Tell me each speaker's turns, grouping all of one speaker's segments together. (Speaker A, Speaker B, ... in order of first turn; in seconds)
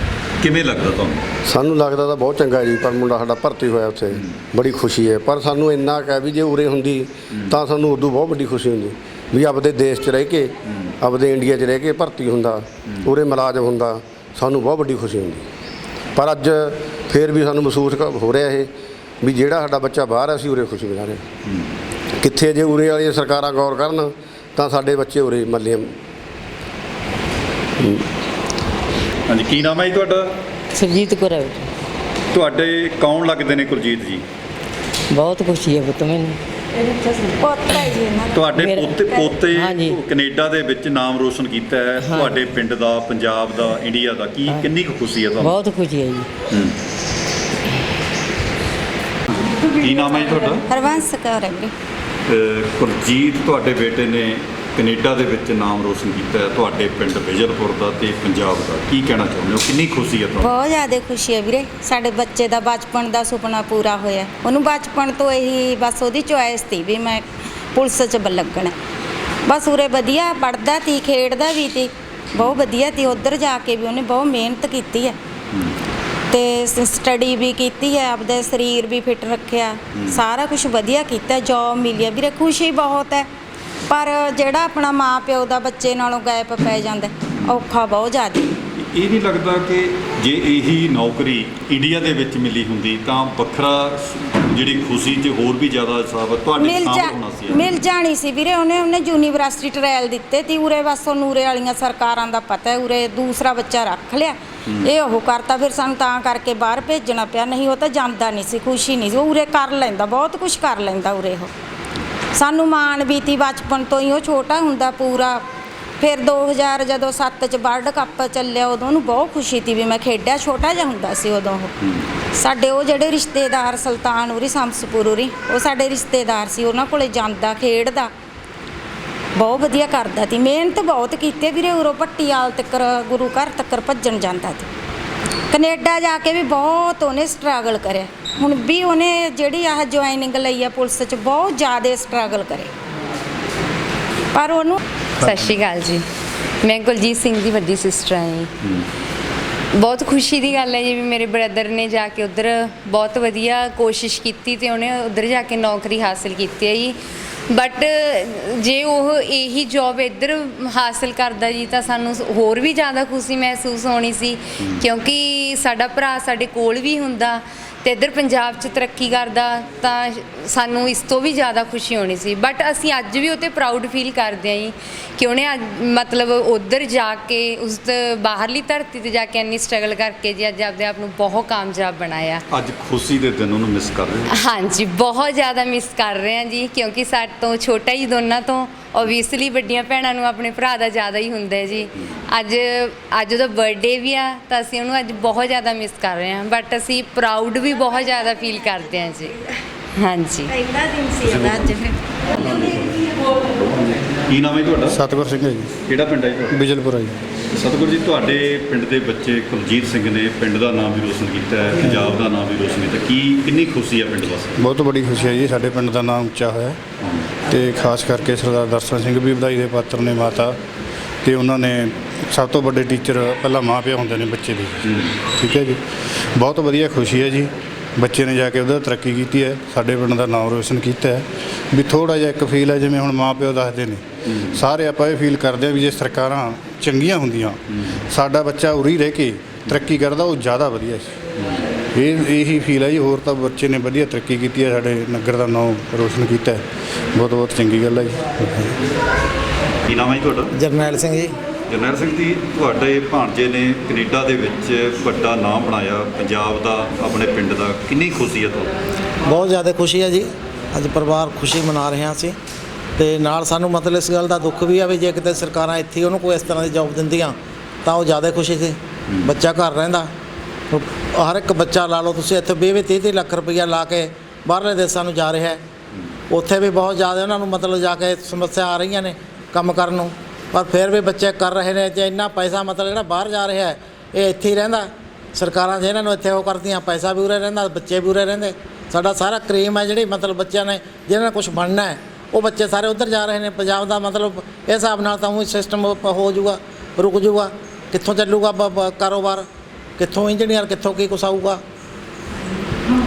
Speaker A: 0.4-1.2, 4.1-4.4, 7.3-7.6, 12.9-13.1, 21.4-21.7, 29.3-30.3, 32.3-34.2, 38.3-45.6, 46.5-46.8, 49.6-50.6, 52.3-60.5, 88.8-97.8, 182.5-184.3, 201.3-201.7, 204.3-205.0, 205.9-206.6, 207.5-214.6, 249.9-250.5, 251.7-258.7
Speaker B: 1.5-15.5, 16.1-18.7, 19.2-21.2, 22.2-25.9, 27.8-28.1
Speaker C: 30.7-31.7, 35.1-36.4, 38.6-38.9, 39.5-40.0, 42.0-42.3, 45.4-46.3
Speaker D: 37.4-38.5, 50.7-51.7, 60.4-68.8, 69.5-75.2, 76.3-83.3, 83.9-88.5, 96.6-111.5, 112.3-115.4, 116.0-121.7, 122.3-128.1, 129.4-134.7, 135.5-142.7, 144.3-144.8, 200.6-201.9
Speaker E: 145.2-146.0, 146.6-148.5, 149.7-157.0, 157.5-182.4, 184.3-199.4, 200.0-200.5
Speaker F: 204.9-205.7, 206.5-207.2, 214.6-216.8, 217.5-220.6, 221.2-225.8, 226.4-241.2, 241.9-246.6, 247.2-248.8
Speaker G: 250.6-251.4, 259.3-262.4, 263.0-270.1, 270.7-275.6, 276.3-299.4, 300.0-301.6